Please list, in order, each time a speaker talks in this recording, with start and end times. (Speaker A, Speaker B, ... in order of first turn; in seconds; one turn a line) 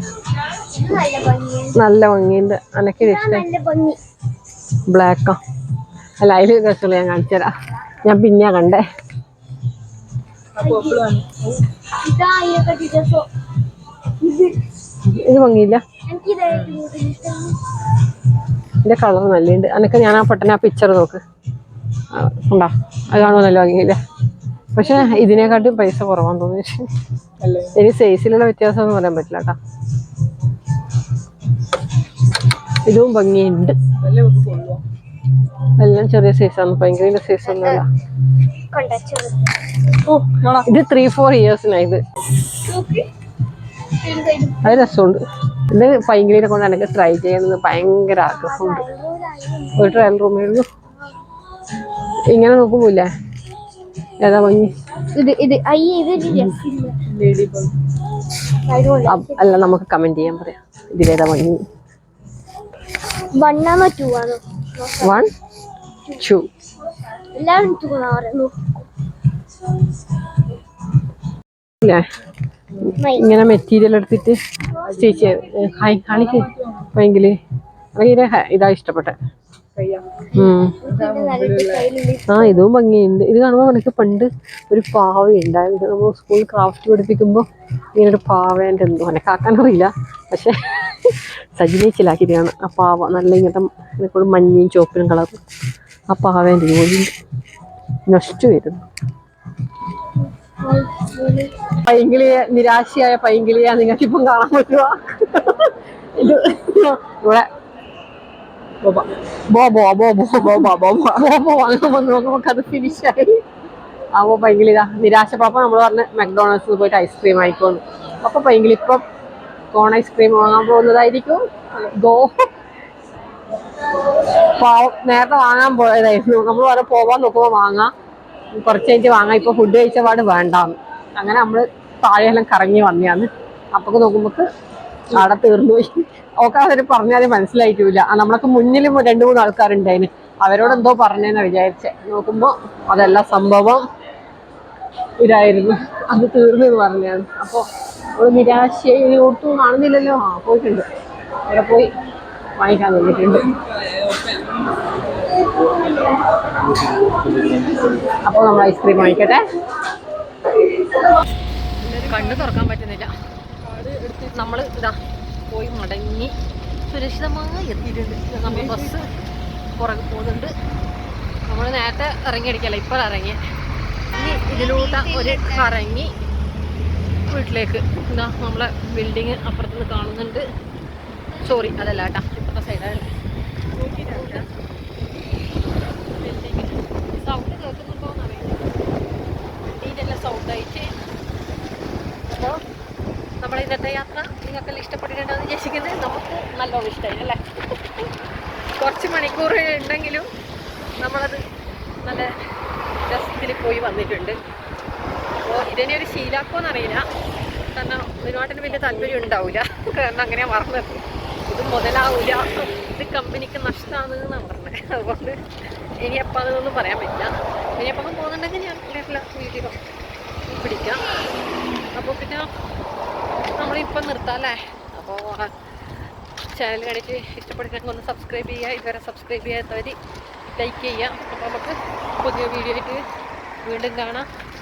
Speaker A: 0.7-1.8
Speaker B: 1.7-3.4
Speaker A: 3.0-4.0
Speaker B: 4.9-5.4
Speaker B: 6.2-7.5
Speaker B: 8.0-8.8
Speaker C: 10.6-11.6
Speaker A: 10.6-11.0
Speaker A: 12.0-13.3
Speaker A: 14.2-14.6
Speaker B: 15.1-15.8
Speaker A: 16.1-17.6
Speaker B: 18.8-21.2
Speaker B: 22.1-24.0
Speaker B: 24.7-26.9
Speaker A: 24.8-25.7
Speaker C: 27.4-27.8
Speaker B: 27.7-29.6
Speaker B: 32.9-33.8
Speaker C: 34.0-34.8
Speaker B: 35.8-37.9
Speaker A: 37.5-37.8
Speaker A: 38.7-39.6
Speaker C: 40.1-40.7
Speaker B: 40.6-42.0
Speaker A: 42.6-43.1
Speaker A: 44.0-44.8
Speaker B: 44.6-48.9
Speaker A: 48.3-50.1
Speaker B: 49.8-50.7
Speaker B: 52.3-53.1
Speaker B: 54.2-54.7
Speaker A: 55.1-57.0
Speaker C: 57.0-57.8
Speaker A: 58.6-59.4
Speaker B: 59.1-61.6
Speaker A: 63.3-65.2
Speaker B: 65.0-65.3
Speaker B: 66.2-66.5
Speaker A: 67.3-68.8
Speaker B: 71.8-72.1
Speaker B: 72.8-77.4
Speaker A: 73.0-73.3
Speaker C: 74.8-76.9
Speaker B: 77.9-79.2
Speaker C: 79.7-80.2
Speaker B: 80.3-80.8
Speaker A: 80.3-82.6
Speaker C: 80.8-81.9
Speaker B: 82.3-95.4
Speaker B: 96.1-97.1
Speaker B: 98.1-98.8
Speaker A: 100.6-101.5
Speaker B: 101.8-107.5
Speaker B: 108.8-113.4
Speaker B: 114.1-119.0
Speaker B: 119.7-122.5
Speaker B: 124.5-127.9
Speaker B: 128.6-134.5
Speaker B: 135.1-143.8
Speaker B: 145.2-150.9
Speaker B: 151.5-151.9
Speaker B: 152.6-153.5
Speaker C: 154.1-154.4
Speaker B: 158.2-159.4
Speaker C: 161.8-162.5
Speaker B: 162.1-163.1
Speaker C: 163.6-164.5
Speaker B: 164.3-165.0
Speaker B: 165.5-166.3
Speaker B: 166.9-169.1
Speaker C: 168.4-168.9
Speaker B: 169.8-170.5
Speaker B: 171.5-173.4
Speaker B: 174.1-176.1
Speaker A: 174.4-175.7
Speaker B: 177.3-180.4
Speaker B: 181.4-183.1
Speaker C: 183.8-184.5
Speaker B: 183.8-184.5
Speaker B: 186.1-188.7
Speaker B: 189.7-190.9
Speaker B: 192.3-192.6
Speaker B: 193.4-197.8
Speaker B: 198.8-200.3
Speaker B: 201.0-201.4
Speaker B: 202.0-202.3
Speaker B: 203.0-204.4
Speaker B: 205.4-207.0
Speaker B: 207.7-215.4
Speaker B: 216.0-219.8
Speaker B: 220.5-221.0
Speaker B: 221.9-222.5
Speaker B: 223.6-225.5
Speaker B: 226.5-230.0
Speaker B: 230.6-233.0
Speaker B: 233.6-234.3